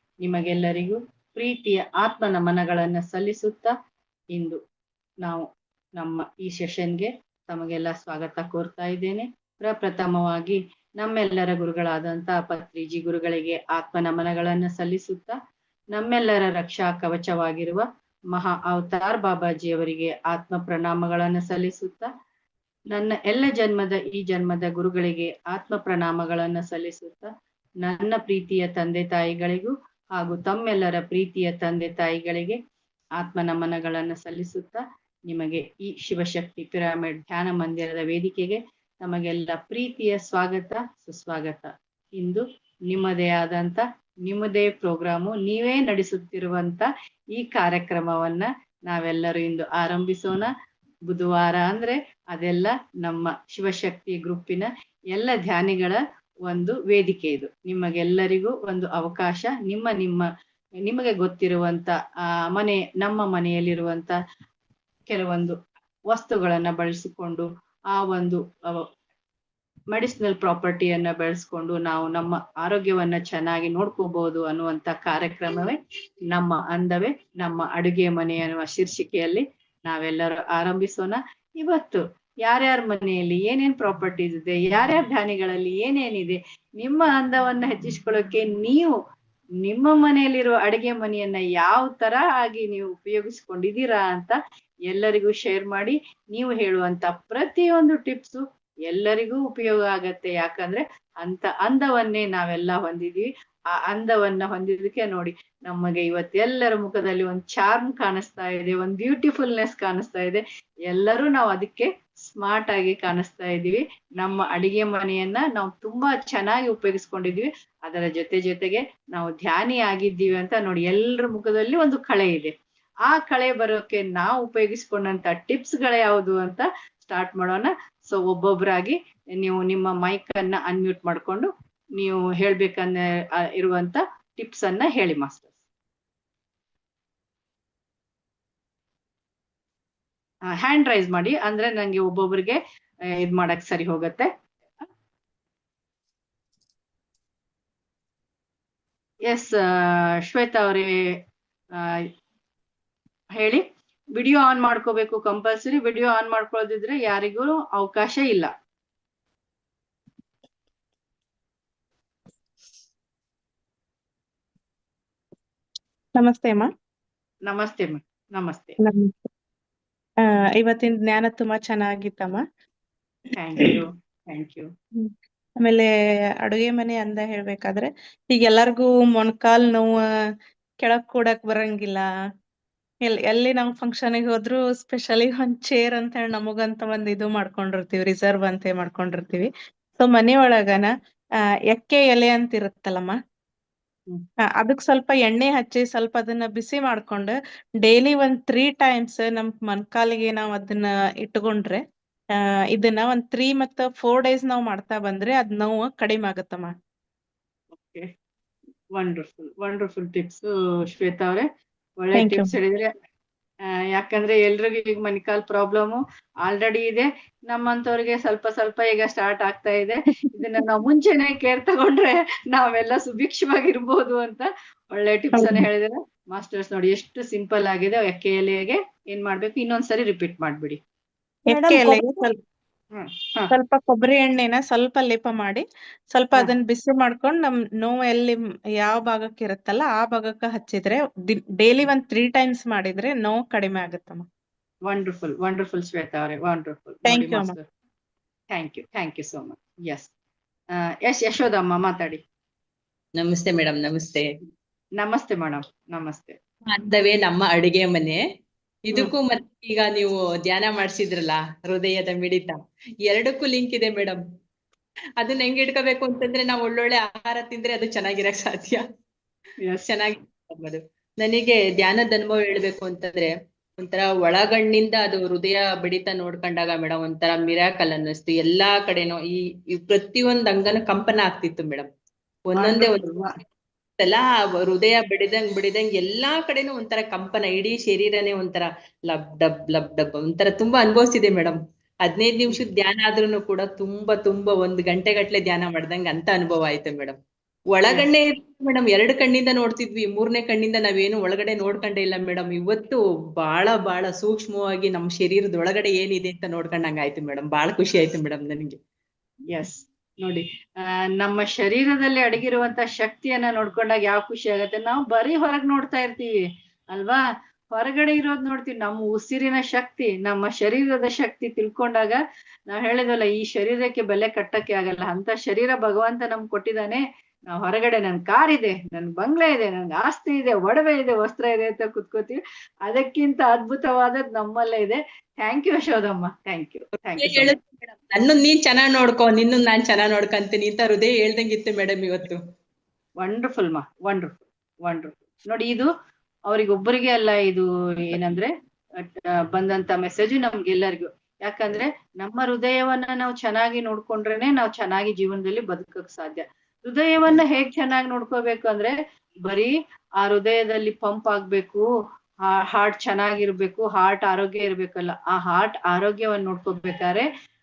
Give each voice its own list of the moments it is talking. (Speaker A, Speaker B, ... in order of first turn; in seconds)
Speaker A: 0.2-3.7, 4.3-4.6, 5.2-15.4, 15.9-22.1, 22.9-27.3, 27.8-32.6, 33.2-50.5, 51.1-60.3, 60.8-62.0, 62.5-64.2, 65.1-65.6, 66.1-68.8, 69.9-75.8, 76.3-89.0, 89.6-94.4, 94.9-122.5, 123.0-135.5, 140.5-144.3, 149.3-150.9, 151.8-152.1, 153.4-153.6, 154.2-158.5, 167.5-168.8, 173.3-174.7, 207.8-208.1, 208.9-211.5, 212.0-212.9, 213.9-230.8, 231.5-232.2, 232.9-233.5, 244.9-247.6, 248.5-250.1, 250.8-252.2, 255.0-256.4, 282.6-283.3, 309.5-322.2, 322.7-337.6, 343.2-345.9, 346.5-361.9, 362.5-367.3
Speaker B: 166.2-166.7, 168.8-169.1, 170.2-172.4, 175.0-175.9, 176.4-180.0, 180.8-182.1, 183.1-190.9, 191.7-193.2, 194.6-201.8, 202.7-206.7, 212.2-212.5, 225.4-225.7, 231.5-232.4, 233.5-244.3, 247.1-247.6
Speaker C: 253.2-254.3, 256.7-258.2, 258.9-262.6, 263.1-264.2, 265.2-268.8, 269.8-281.9, 282.5-283.1, 284.0-297.2, 297.7-308.8, 337.2-342.4